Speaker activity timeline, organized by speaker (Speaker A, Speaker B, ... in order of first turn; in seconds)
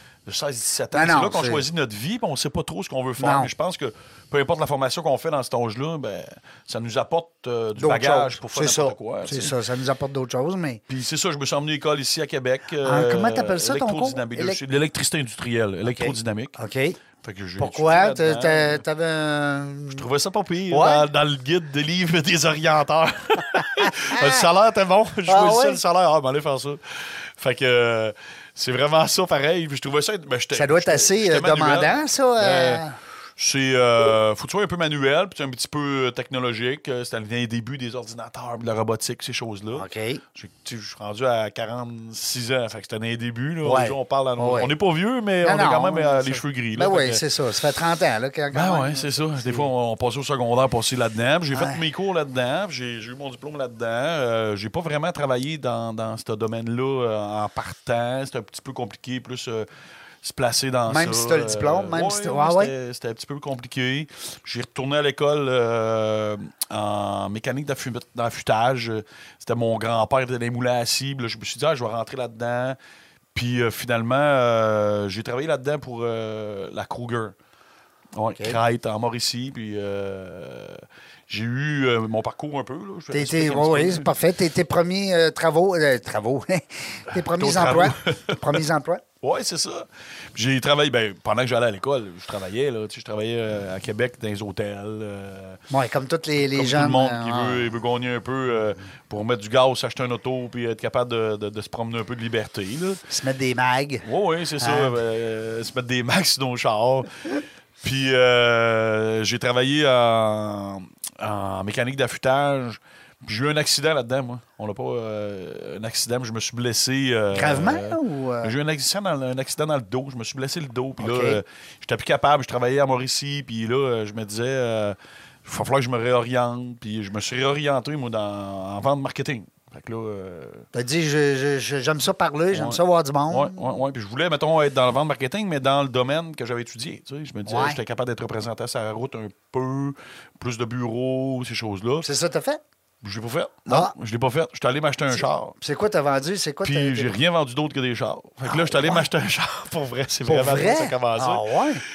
Speaker A: 0.2-9.5, 10.9-16.6, 17.2-18.8, 19.9-32.8, 33.4-47.2, 48.5-59.7, 60.2-72.8, 73.3-77.3, 78.1-84.1, 87.3-88.6, 89.2-95.6, 96.5-103.0, 104.0-107.3, 107.8-130.7, 132.5-142.1, 143.0-145.6, 146.6-151.4
Speaker B: 0.9-1.6, 3.2-3.5, 7.8-10.8, 12.8-14.6, 15.8-17.0, 17.6-20.0, 20.7-21.1, 23.6-24.4, 25.3-25.8, 30.5-33.0, 39.7-40.2, 43.6-44.7, 45.4-49.7, 51.5-51.8, 60.9-62.7, 83.1-89.0, 95.7-97.7, 103.1-104.0, 104.6-105.0, 117.3-118.5, 121.0-121.4, 130.7-133.7, 137.4-137.8, 142.0-142.6, 143.7-143.9, 145.1-147.1, 148.4-149.1, 150.3-151.8